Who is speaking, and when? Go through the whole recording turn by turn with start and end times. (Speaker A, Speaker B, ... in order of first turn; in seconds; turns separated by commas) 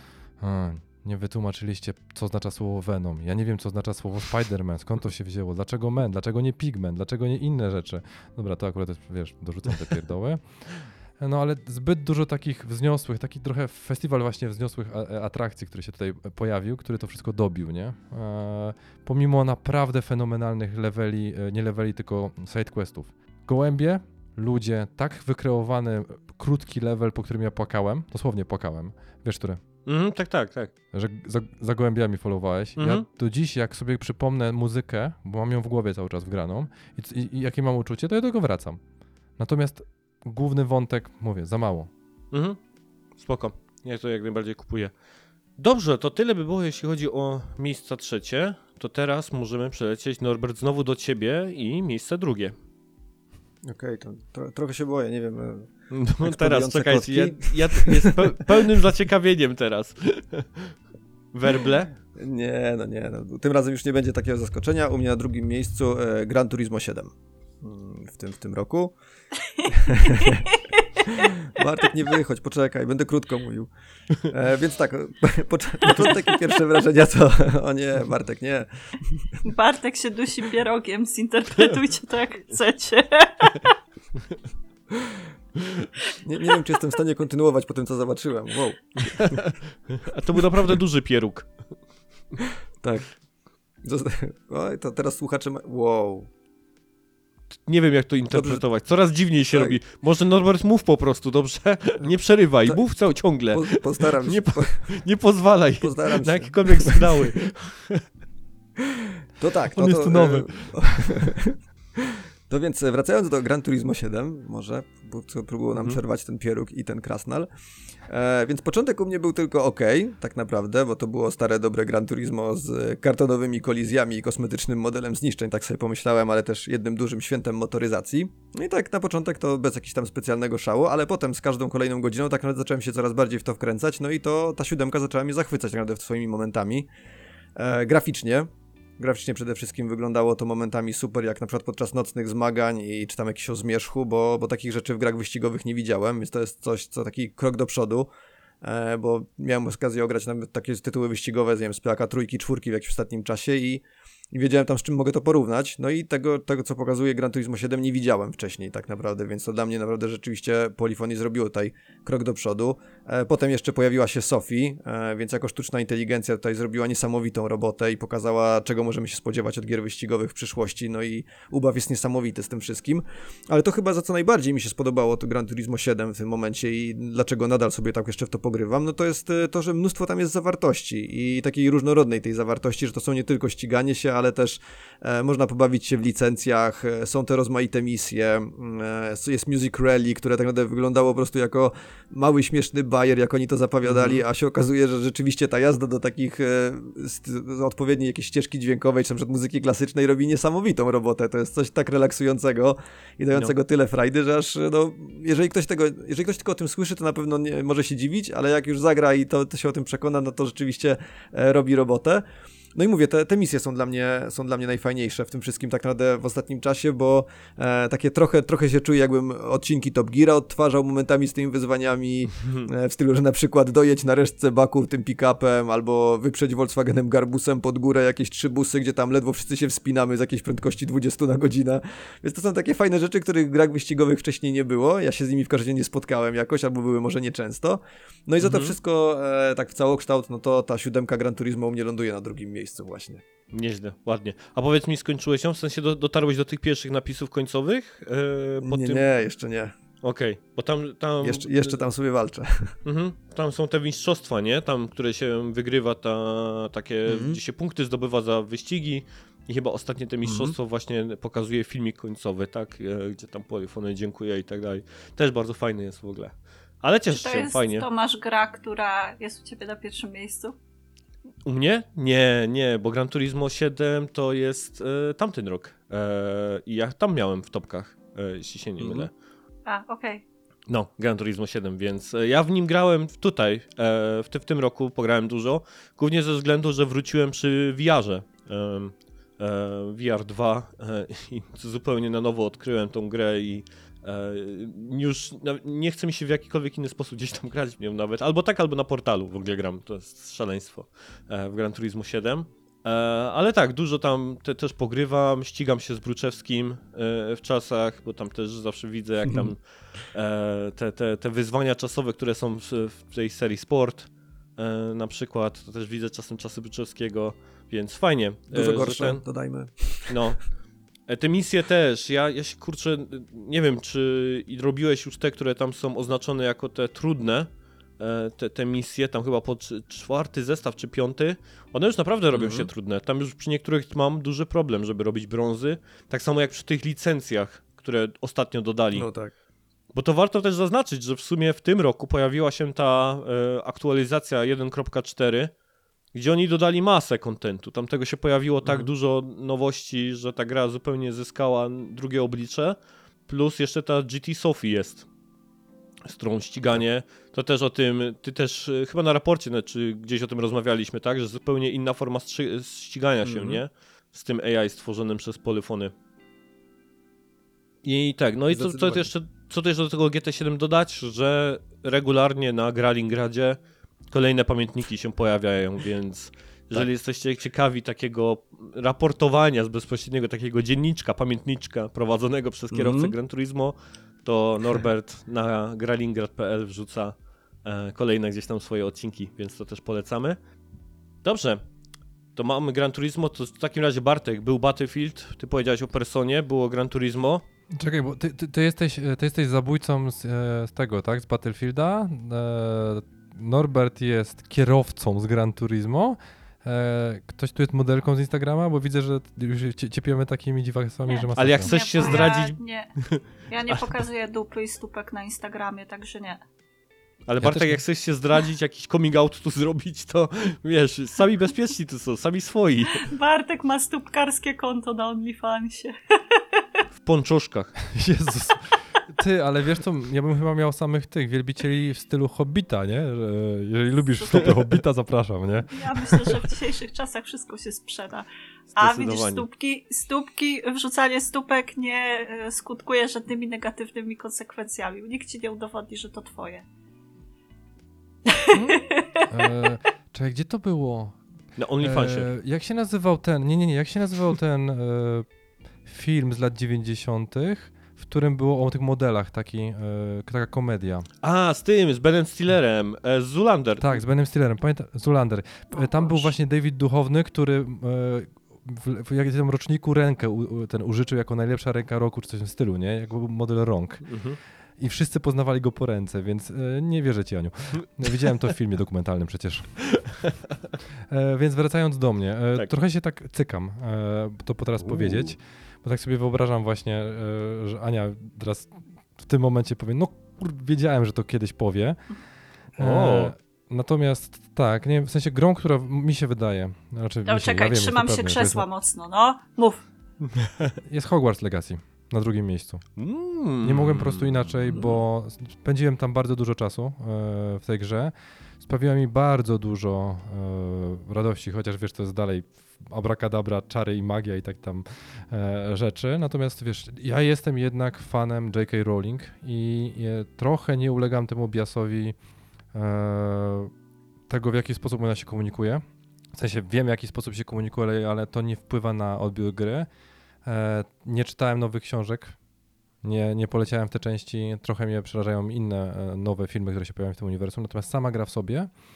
Speaker A: 0.4-29.6, Speaker B: 29.9-30.7, Speaker A: 30.9-38.8, Speaker B: 32.8-33.0, Speaker A: 39.4-41.9, Speaker B: 42.3-42.6, Speaker B: 43.2-44.9, Speaker B: 45.6-52.5, Speaker C: 53.6-58.2, Speaker B: 55.9-60.7, Speaker B: 61.3-61.9, Speaker C: 62.1-68.9, Speaker D: 69.5-71.3, Speaker C: 69.7-70.6, Speaker C: 71.2-79.3, Speaker D: 79.4-83.8, Speaker C: 86.1-89.5, Speaker B: 89.1-91.5, Speaker C: 92.8-93.2, Speaker C: 93.8-96.3, Speaker B: 97.7-108.0, Speaker C: 98.3-98.6, Speaker C: 99.5-99.8, Speaker C: 103.5-104.9, Speaker C: 105.8-107.3, Speaker C: 109.4-117.5, Speaker A: 109.7-111.3, Speaker B: 115.7-116.0, Speaker C: 118.1-136.9, Speaker C: 137.6-148.1, Speaker C: 148.6-212.2, Speaker B: 193.8-194.2, Speaker C: 212.7-243.2, Speaker B: 222.4-222.7, Speaker B: 238.4-238.8, Speaker B: 243.5-249.0, Speaker C: 248.6-249.7, Speaker B: 250.0-251.8, Speaker C: 251.2-252.7, Speaker B: 252.8-267.9, Speaker C: 257.1-257.4, Speaker C: 260.2-260.6, Speaker D: 267.1-270.5, Speaker B: 271.4-279.1, Speaker C: 278.8-279.1, Speaker D: 279.6-280.2, Speaker B: 280.7-319.2, Speaker C: 309.2-309.5, Speaker C: 318.5-320.2, Speaker B: 320.1-320.4, Speaker B: 321.1-339.1, Speaker C: 332.3-332.7, Speaker C: 338.9-339.3, Speaker B: 339.9-345.5, Speaker B: 346.1-352.8, Speaker B: 353.3-355.1, Speaker B: 356.0-365.9, Speaker C: 363.2-363.6, Speaker B: 367.8-390.4, Speaker C: 368.5-369.1, Speaker C: 382.7-383.1, Speaker B: 391.2-391.6, Speaker B: 392.3-397.4, Speaker A: 397.7-412.1, Speaker D: 411.1-412.9, Speaker B: 411.4-413.2, Speaker D: 413.5-416.4, Speaker B: 417.3-423.1, Speaker A: 417.4-417.8, Speaker D: 423.0-426.6, Speaker B: 427.0-427.8, Speaker A: 427.9-436.3, Speaker D: 434.2-434.5, Speaker D: 435.7-446.6, Speaker B: 438.7-439.5, Speaker D: 448.3-449.2, Speaker A: 448.5-451.2, Speaker B: 451.6-452.3, Speaker A: 451.8-455.2, Speaker A: 455.9-461.1, Speaker B: 461.2-464.0, Speaker A: 463.8-474.2, Speaker D: 465.7-466.2, Speaker B: 474.1-474.4, Speaker A: 474.8-479.9, Speaker B: 479.9-480.3, Speaker A: 481.1-492.1, Speaker B: 484.9-485.3, Speaker B: 492.8-493.3, Speaker A: 492.8-498.6, Speaker D: 497.2-499.8, Speaker B: 500.4-500.7, Speaker A: 500.8-502.9, Speaker B: 503.0-504.8, Speaker A: 503.6-522.1, Speaker A: 522.7-523.7, Speaker A: 524.3-525.8, Speaker A: 526.3-529.9, Speaker A: 530.4-532.4, Speaker A: 533.0-538.7